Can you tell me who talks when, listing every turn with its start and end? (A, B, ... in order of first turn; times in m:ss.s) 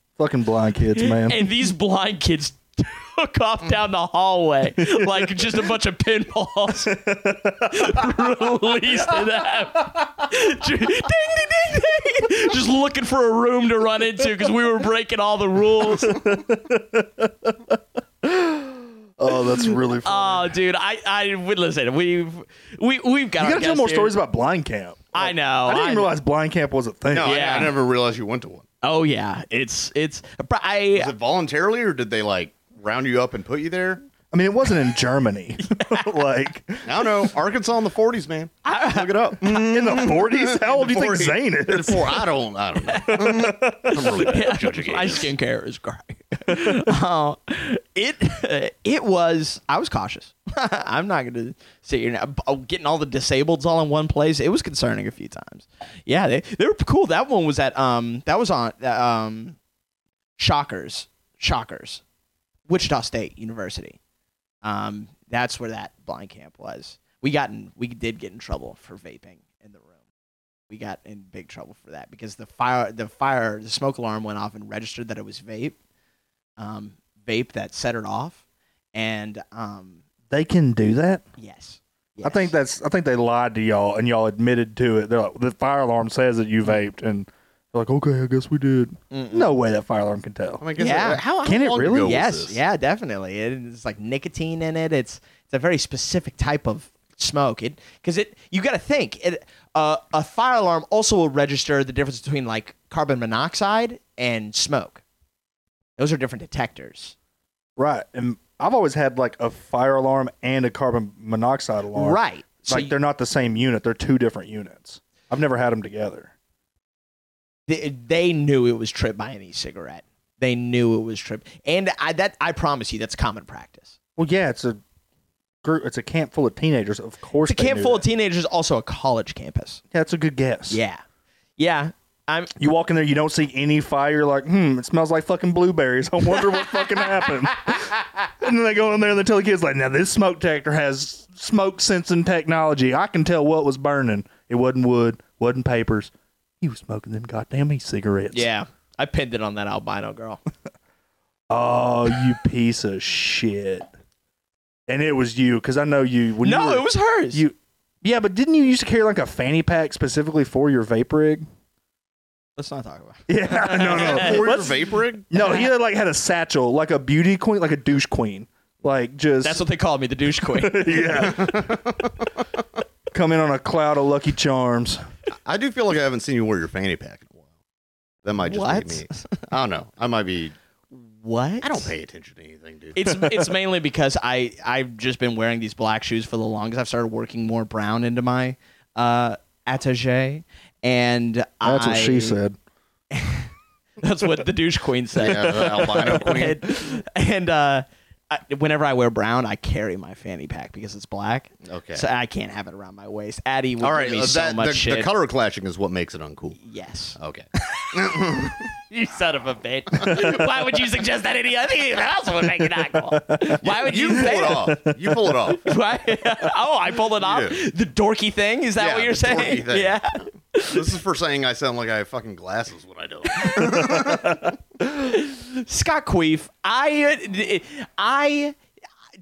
0:00.2-0:01.5 A
0:01.0-0:07.0 B
0:04.8-0:05.4 A
0:06.9-0:08.1 A
0:07.7-0:16.2 B
0:15.8-0:20.5 A
0:19.3-0:24.2 B
0:23.4-0:27.7 A
0:25.1-0:26.1 B
0:27.1-0:28.6 C
0:27.2-0:27.7 B
0:28.8-0:31.1 B
0:31.0-0:34.0 C
0:34.3-0:37.1 A
0:35.6-0:36.1 B
0:36.8-0:45.3 C
0:38.6-0:39.4 B
0:39.4-0:42.3 A
0:42.9-0:59.6 B
0:43.0-0:44.3 A
0:46.5-0:46.9 A
1:00.4-1:02.0 B
1:02.7-1:04.0 B
1:04.6-1:09.9 B
1:10.7-1:15.8 B
1:16.6-1:18.4 B
1:18.9-1:20.0 B
1:20.3-1:21.2 A
1:21.4-1:22.5 B
1:22.2-1:30.6 A
1:29.1-1:29.6 B
1:30.6-1:32.6 C
1:30.8-1:31.2 B
1:31.4-1:32.2 A
1:32.0-1:45.0 B
1:46.0-1:47.2 B
1:47.8-1:56.3 A
1:51.9-1:52.9 B
1:57.7-2:04.0 B
2:04.2-2:04.8 A
2:05.6-2:08.1 A
2:07.4-2:09.8 B
2:09.9-2:10.8 A
2:10.7-2:11.0 B
2:11.6-2:12.5 B
2:12.6-2:28.5 A
2:16.4-2:18.1 B
2:28.3-2:30.4 B
2:31.5-2:33.9 A
2:34.9-2:41.4 A
2:36.4-2:37.4 B
2:42.6-2:44.5 B
2:43.3-2:49.6 A
2:43.7-2:45.3 C
2:45.4-2:45.6 B
2:49.4-2:51.7 B
2:50.5-2:51.6 A
2:51.2-2:52.3 C
2:53.1-2:55.0 A
2:55.5-2:57.4 C
2:58.2-3:00.6 C
2:58.4-2:59.4 B
3:00.9-3:01.9 B
3:01.6-3:03.0 C
3:03.0-3:12.4 B
3:03.1-3:03.4 A
3:11.6-3:12.6 A
3:13.1-3:13.5 B
3:14.0-3:25.1 B
3:15.2-3:16.6 C
3:21.6-3:22.0 C
3:23.8-3:26.6 C
3:26.6-3:34.7 B
3:27.2-3:28.7 C
3:30.0-3:30.4 A
3:33.2-3:33.6 A
3:33.6-3:35.7 C
3:34.1-3:35.5 A
3:35.6-3:40.9 B
3:37.2-3:37.6 C
3:38.8-3:40.1 C
3:40.7-3:44.4 C
3:43.3-3:44.0 B
3:43.8-3:44.5 A
3:44.8-3:48.6 B